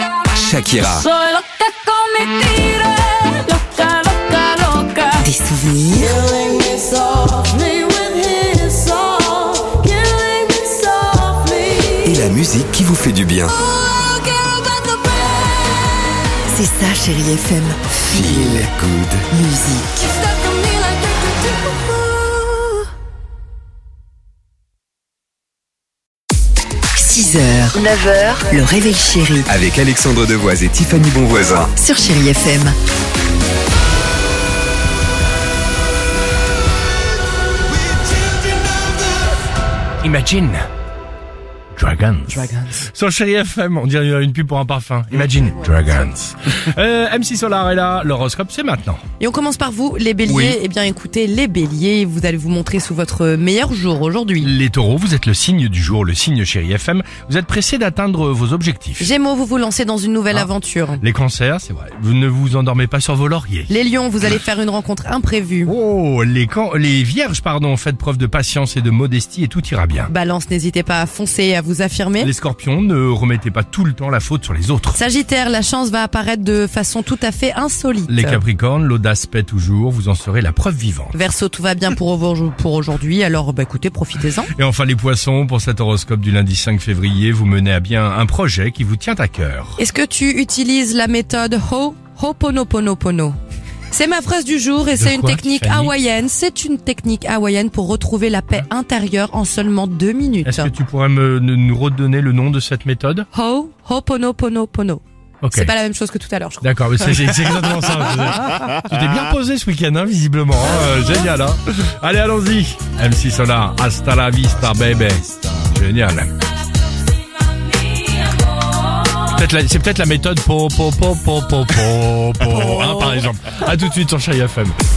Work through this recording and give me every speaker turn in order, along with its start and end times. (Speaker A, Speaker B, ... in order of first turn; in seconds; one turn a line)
Speaker A: 0.3-1.0
Speaker B: 1.1-5.1
Speaker C: 5.2-6.2
Speaker B: 6.4-12.0
Speaker A: 12.0-13.6
Speaker B: 14.0-15.1
Speaker C: 16.5-18.7
Speaker A: 18.1-19.2
Speaker C: 19.3-20.2
Speaker B: 20.4-21.3
Speaker C: 26.9-27.8
Speaker A: 27.7-28.4
Speaker C: 28.4-29.5
Speaker A: 29.5-31.7
Speaker C: 31.8-32.8
Speaker D: 40.0-40.7
Speaker D: 41.7-49.0
Speaker E: 49.2-54.5
Speaker D: 50.2-50.6
Speaker D: 54.4-59.1
Speaker E: 59.0-61.0
Speaker D: 60.3-63.8
Speaker E: 63.7-65.7
Speaker D: 65.7-70.1
Speaker E: 70.1-72.3
Speaker D: 72.2-75.0
Speaker E: 74.9-78.4
Speaker D: 78.1-81.1
Speaker E: 81.1-84.5
Speaker D: 84.5-89.8
Speaker E: 89.8-93.4
Speaker E: 93.9-100.7
Speaker D: 95.0-95.9
Speaker D: 100.4-103.3
Speaker E: 103.3-107.3
Speaker D: 105.4-105.7
Speaker D: 106.6-116.3
Speaker D: 119.2-124.8